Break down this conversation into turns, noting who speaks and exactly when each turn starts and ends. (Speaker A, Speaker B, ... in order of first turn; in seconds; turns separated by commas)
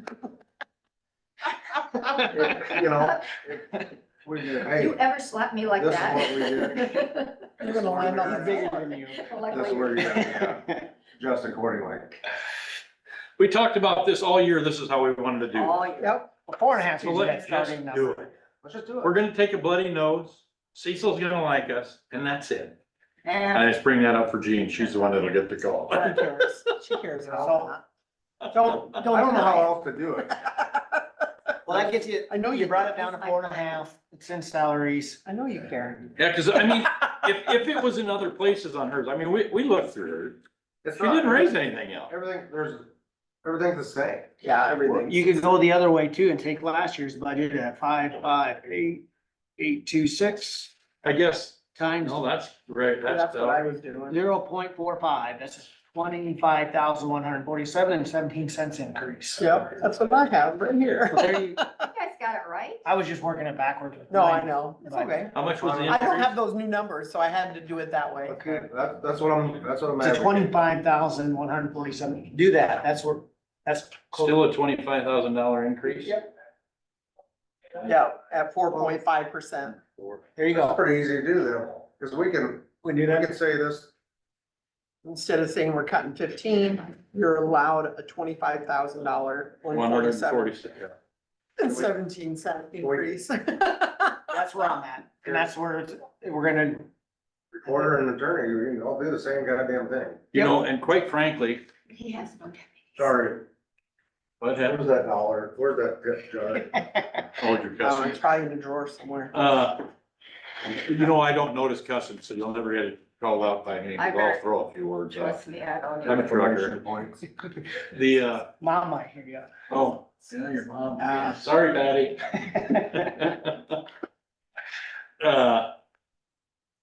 Speaker A: 2.2-5.0, Speaker B: 2.7-3.1, Speaker B: 4.7-8.0, Speaker A: 5.7-7.0, Speaker A: 7.6-8.6, Speaker C: 7.6-8.7, Speaker D: 8.0-9.3, Speaker B: 8.6-10.3, Speaker A: 9.5-12.2, Speaker D: 9.9-10.8, Speaker E: 13.4-15.8, Speaker B: 15.5-16.2, Speaker C: 16.0-16.2, Speaker D: 16.4-18.3, Speaker E: 16.9-18.3, Speaker A: 18.6-19.2, Speaker E: 19.0-22.8, Speaker B: 23.2-23.5, Speaker E: 23.5-26.3, Speaker C: 25.9-27.8, Speaker D: 27.2-27.8, Speaker E: 28.4-29.0, Speaker D: 28.5-29.6, Speaker C: 28.6-29.7, Speaker A: 29.1-30.4, Speaker D: 31.6-35.2, Speaker C: 31.7-33.1, Speaker B: 33.0-33.7, Speaker C: 35.2-36.1, Speaker E: 36.1-40.4, Speaker A: 40.8-42.9, Speaker E: 41.0-42.1, Speaker A: 43.4-44.4, Speaker C: 44.4-45.3, Speaker D: 44.9-49.0, Speaker D: 49.6-50.7, Speaker E: 51.0-53.7, Speaker D: 51.7-52.3, Speaker C: 53.0-54.2, Speaker D: 54.0-59.6, Speaker C: 59.4-61.7, Speaker D: 61.1-61.6, Speaker B: 61.9-62.8, Speaker D: 62.8-65.6, Speaker C: 64.1-65.3, Speaker E: 65.3-66.3, Speaker A: 65.6-66.0, Speaker C: 65.9-68.6, Speaker A: 68.3-70.5, Speaker D: 70.0-74.5, Speaker E: 74.1-76.2, Speaker C: 77.8-79.8, Speaker D: 80.3-80.8, Speaker A: 80.5-83.9, Speaker D: 82.8-83.3, Speaker C: 85.0-90.5, Speaker E: 89.7-90.9, Speaker C: 91.6-94.3, Speaker A: 91.6-91.9, Speaker A: 92.8-93.1, Speaker D: 94.3-96.9, Speaker A: 97.6-100.2, Speaker E: 100.3-101.6, Speaker B: 101.9-103.1, Speaker A: 103.0-103.5, Speaker E: 104.4-104.8, Speaker A: 104.6-106.8, Speaker E: 107.4-108.2, Speaker C: 107.8-109.4, Speaker E: 109.3-109.9, Speaker E: 110.7-115.4, Speaker B: 114.0-114.4, Speaker B: 115.1-116.2, Speaker A: 116.0-117.2, Speaker E: 116.0-116.8, Speaker E: 117.9-118.5, Speaker D: 118.6-119.5, Speaker E: 119.7-123.8, Speaker C: 121.0-121.4, Speaker E: 125.2-125.7